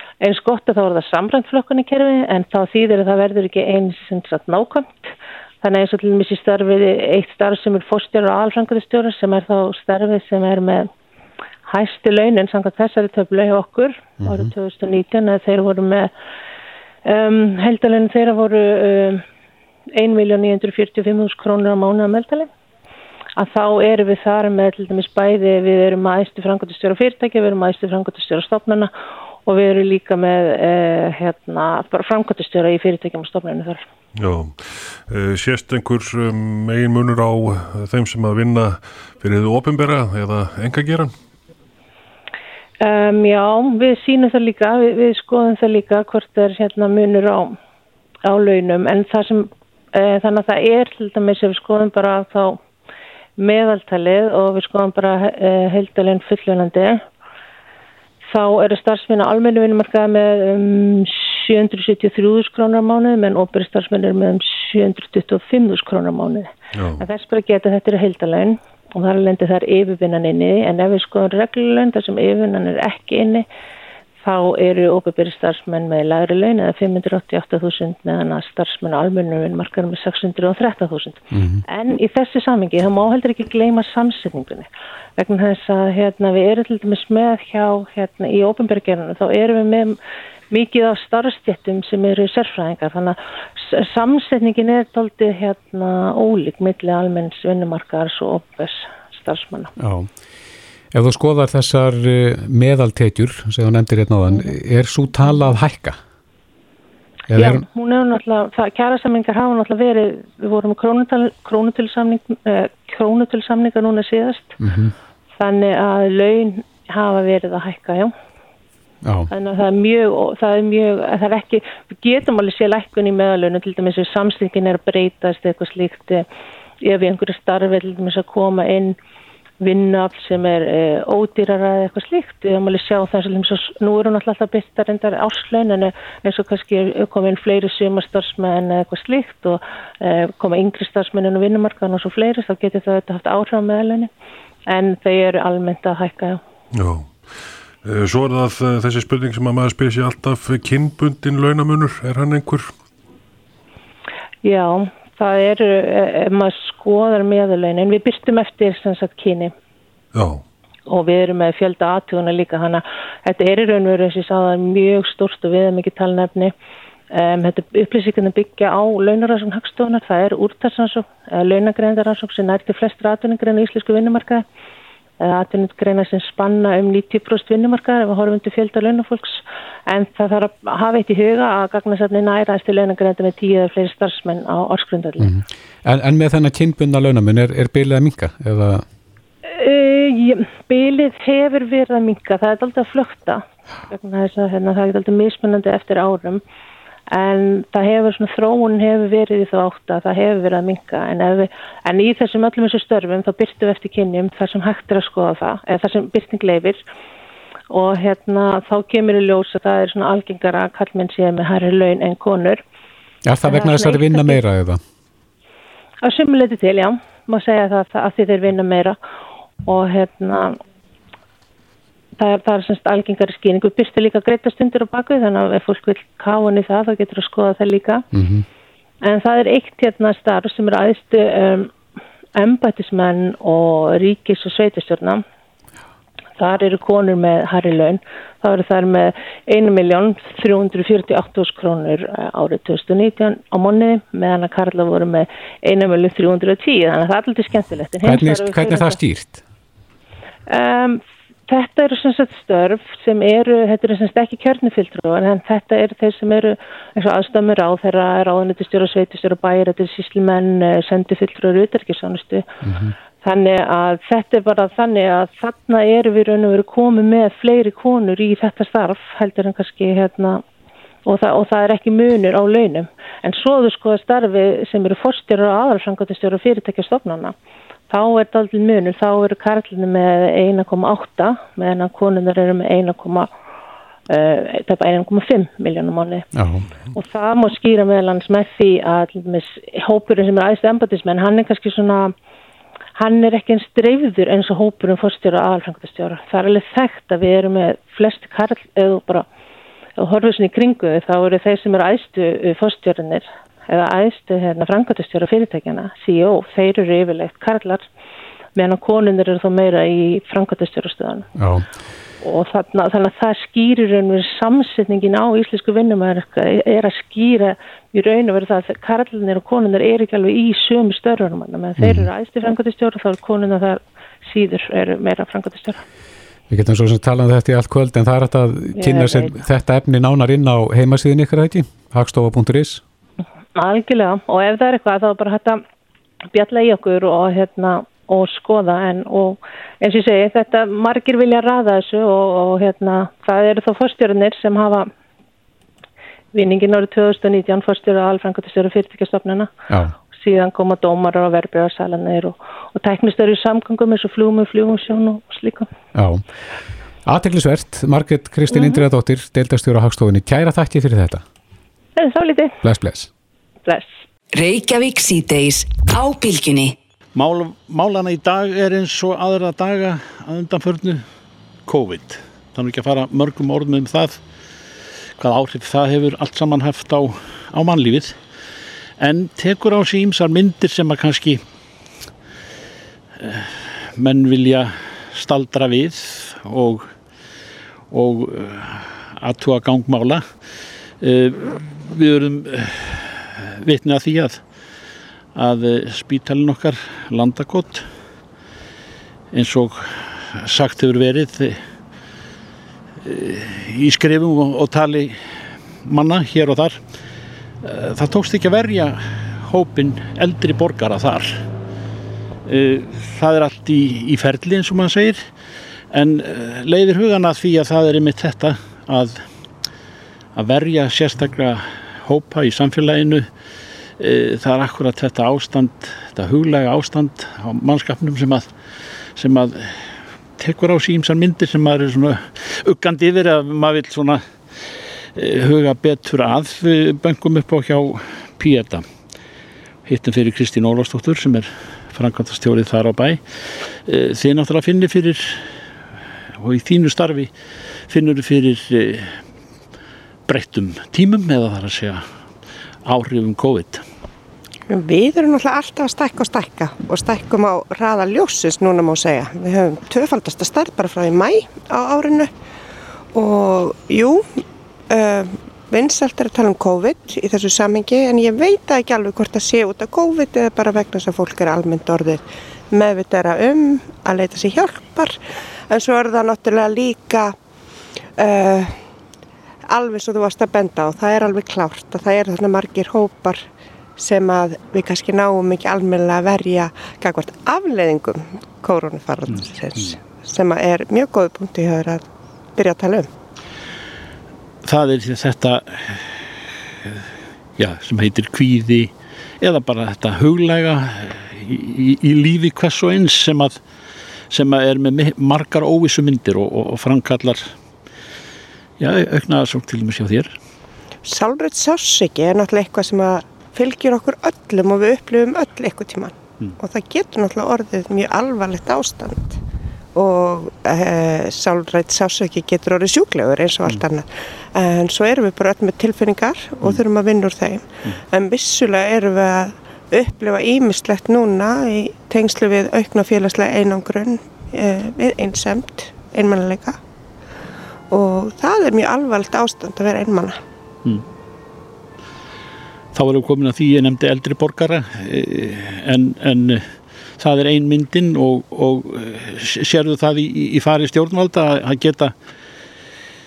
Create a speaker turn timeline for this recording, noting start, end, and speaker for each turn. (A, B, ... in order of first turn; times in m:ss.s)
0:00.2-0:10.9 A
0:11.7-0:16.1 A
0:14.2-0:14.5 B
0:17.0-0:19.2 A
0:19.9-0:22.5 A
0:23.4-0:28.9 A
0:29.5-0:33.8 A
0:34.2-0:41.1 C
0:42.8-0:47.6 A
0:48.3-0:52.6 A
0:53.4-0:57.0 A
0:58.3-1:13.4 A
1:06.8-1:07.0 C
1:14.2-1:30.0 A
1:21.3-1:21.6 B
1:30.5-1:39.7 A
1:39.8-1:40.1 B
1:40.9-1:46.0 B
1:47.3-1:47.6 B
1:47.4-1:54.6 A
1:54.6-1:54.9 B
1:55.4-1:58.1 A
1:59.0-1:59.3 B
1:59.3-2:06.3 A
2:06.8-2:09.0 A
2:09.6-2:24.1 A
2:24.7-2:26.4 A
2:26.8-2:32.7 C
2:34.4-2:39.5 A
2:40.2-2:40.4 C
2:40.9-2:46.5 A
2:47.1-2:54.4 A
2:55.2-3:05.3 A
3:05.2-3:08.8 B
3:09.4-3:16.4 A
3:17.1-3:26.8 A
3:27.7-3:32.6 A
3:33.3-3:34.8 B
3:33.4-3:34.4 A
3:36.0-3:39.0 A
3:39.6-3:40.6 A
3:42.2-3:48.0 A
3:48.1-3:48.5 B
3:49.0-3:51.7 A
3:52.4-3:55.2 A
3:56.4-4:09.0 A
4:08.0-4:09.4 B
4:10.5-4:22.5 A
4:22.6-4:22.9 B
4:23.2-4:30.4 A
4:31.1-4:37.4 A
4:37.9-4:43.3 A
4:44.1-4:46.3 A
4:46.3-4:46.7 B
4:46.9-4:52.1 A
4:53.0-4:59.3 A
5:00.0-5:07.8 A
5:08.6-5:11.3 A
5:11.4-5:11.6 B
5:12.2-5:25.8 A
5:21.8-5:22.1 B
5:26.5-5:32.8 B
5:28.8-5:29.4 A
5:33.6-5:35.6 A
5:36.3-5:44.9 A
5:46.3-5:49.5 A
5:50.1-5:55.7 A
5:56.0-5:56.2 B
5:57.0-6:01.2 B
5:58.5-5:58.8 A
6:02.0-6:02.6 A
6:02.6-6:03.1 B
6:04.3-6:06.8 D
6:07.2-6:11.0 E
6:11.7-6:14.2 E
6:15.2-6:18.2 E
6:19.0-6:21.4 E
6:23.2-6:26.9 E
6:27.9-6:30.3 E
6:31.0-6:34.4 E
6:35.4-6:37.8 E
6:39.3-6:41.6 E
6:43.0-6:45.2 E
6:45.8-6:46.8 E
6:47.6-6:51.4 E
6:52.4-6:55.2 E
6:55.9-6:59.2 E
7:00.4-7:03.3 E
7:04.0-7:08.5 E
7:09.2-7:14.2 E
7:15.2-7:18.8 E
7:19.8-7:25.4 E
7:26.4-7:27.3 E
7:27.9-7:29.2 E
7:30.3-7:32.0 E
7:32.8-7:33.8 E
7:34.7-7:42.3 F
7:43.1-7:44.4 F
7:44.9-7:55.2 F
7:55.7-7:57.4 F
7:58.2-7:58.8 F
7:59.7-8:03.4 F
8:04.0-8:12.0 F
8:12.6-8:13.1 F
8:14.6-8:16.3 E
8:17.6-8:23.6 E
8:24.3-8:27.5 E
8:28.8-8:30.4 E
8:31.0-8:39.4 F
8:40.0-8:56.8 F
8:57.9-9:00.4 F
9:02.9-9:12.1 E